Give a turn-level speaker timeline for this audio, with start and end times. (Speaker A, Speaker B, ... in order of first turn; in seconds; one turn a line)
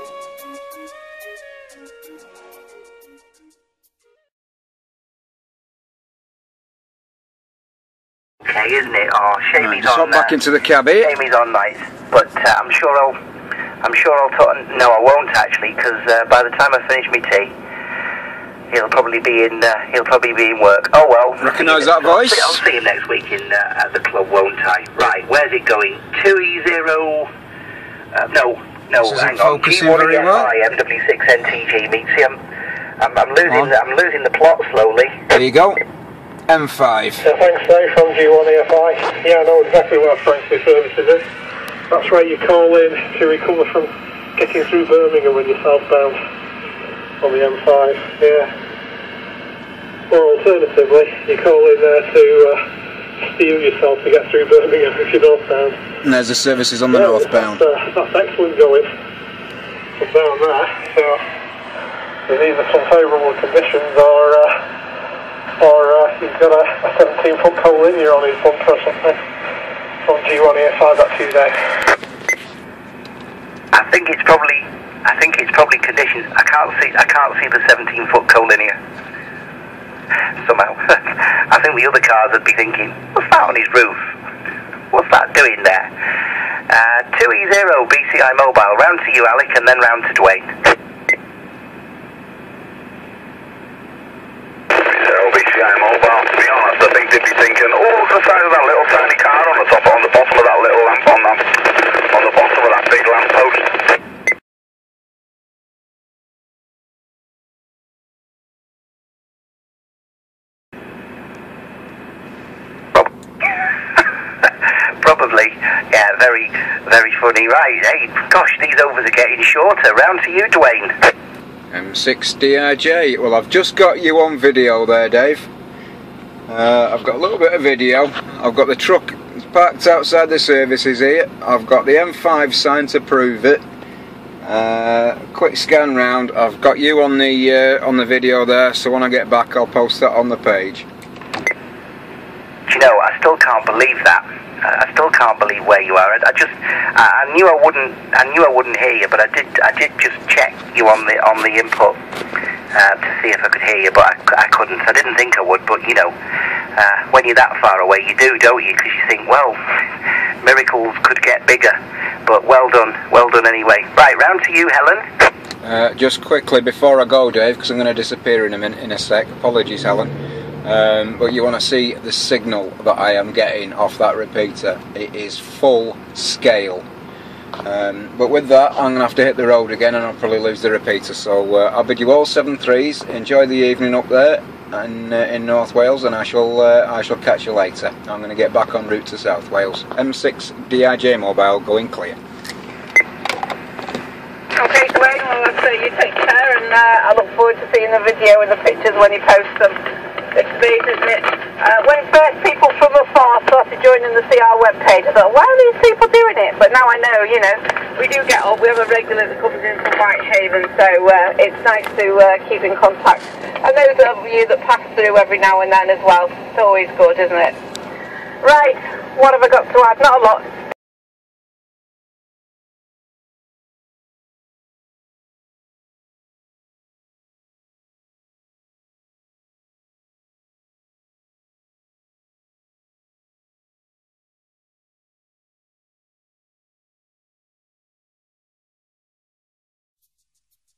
Speaker A: 8.4-10.4
Speaker B: 9.6-11.1
Speaker A: 11.0-13.2
Speaker A: 13.8-17.5
Speaker A: 18.7-27.3
Speaker B: 21.4-22.6
Speaker A: 28.1-32.4
Speaker B: 29.0-30.5
Speaker A: 33.0-35.2
Speaker B: 35.3-35.8
Speaker B: 36.5-37.2
Speaker C: 37.2-41.2
Speaker C: 41.9-46.2
Speaker C: 47.2-48.5
Speaker C: 50.1-52.6
Speaker C: 53.2-55.8
Speaker B: 56.0-57.6
Speaker C: 56.9-58.9
Speaker C: 60.0-61.2
Speaker C: 62.3-64.6
Speaker C: 65.6-69.2
Speaker C: 70.0-71.5
Speaker A: 73.7-78.8
Speaker A: 80.4-84.1
Speaker A: 84.9-85.9
Speaker A: 86.7-90.5
Speaker D: 94.8-103.7
Speaker A: 113.6-121.0
Speaker B: 121.7-125.5
Speaker B: 126.5-133.6
Speaker B: 134.4-140.8
Speaker A: 142.7-152.0
Speaker A: 152.7-156.1
Speaker A: 156.8-159.6
Speaker A: 160.4-165.0
Speaker B: 165.6-170.1
Speaker B: 170.6-176.8
Speaker B: 177.6-192.2
Speaker E: 194.6-199.8
Speaker E: 200.3-217.5
Speaker E: 218.4-220.4